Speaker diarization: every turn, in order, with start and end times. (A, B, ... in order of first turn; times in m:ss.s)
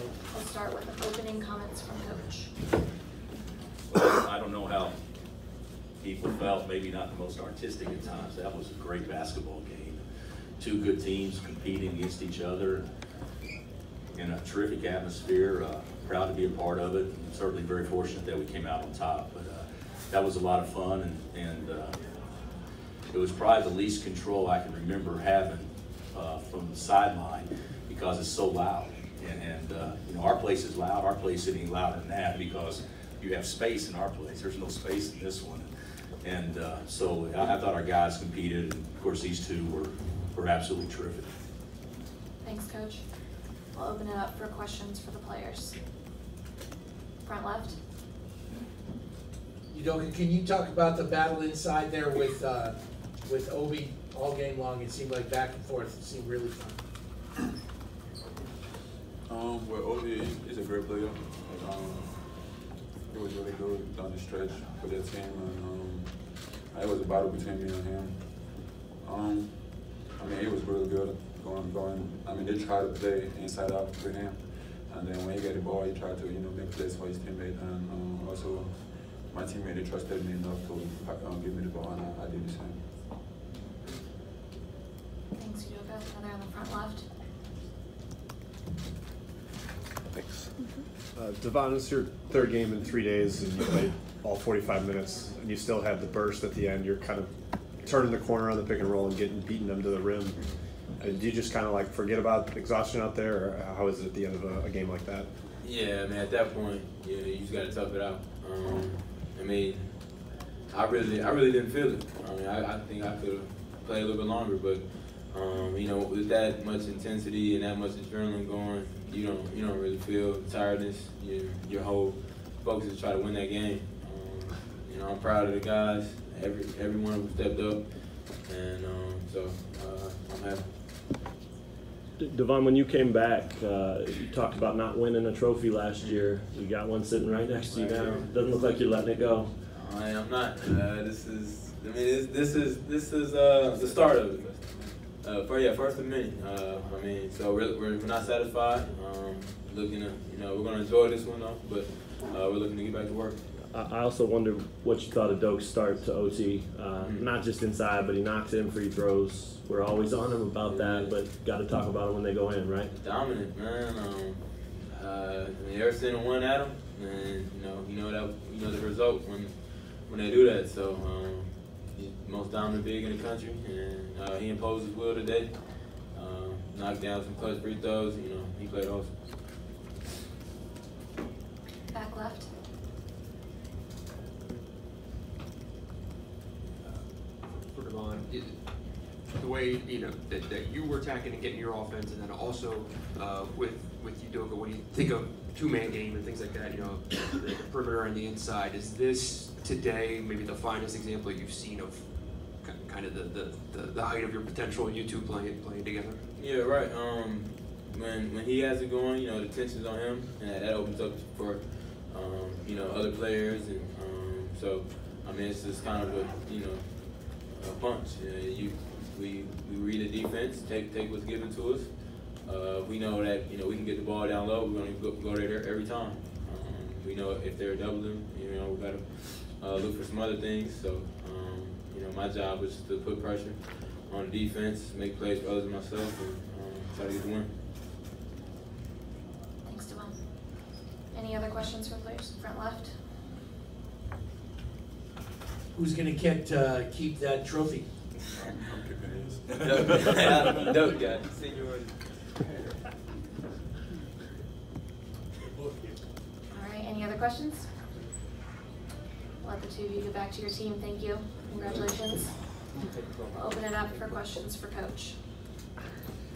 0:00.3-0:02.5 A
0:03.9-0:05.0 B
0:06.0-0:10.0 B
0:10.6-0:12.8 B
0:14.1-0:22.0 B
0:23.1-0:35.7 B
0:36.2-0:41.3 B
0:42.4-0:43.0 A
0:43.7-0:45.8 A
0:47.2-0:47.8 A
0:49.7-0:56.8 C
0:59.3-1:22.9 D
1:25.3-1:27.0 A
1:30.1-1:30.5 E
1:31.1-1:45.3 E
1:45.6-2:10.7 F
2:12.2-2:19.5 G
2:16.0-2:16.3 F
2:17.7-2:18.3 F
2:19.7-2:33.4 F
2:33.6-2:42.9 G
2:37.0-2:37.3 F
2:40.6-2:41.2 F
2:42.9-2:59.6 F
3:01.9-3:02.5 A
3:06.8-3:26.2 H
3:26.3-3:57.5 F
3:59.6-4:03.0 A
4:05.7-4:07.9 C
4:08.4-4:09.5 D
4:09.6-4:12.2 F
4:16.5-4:17.7 A
4:19.4-4:22.6 A
4:23.3-4:25.2 A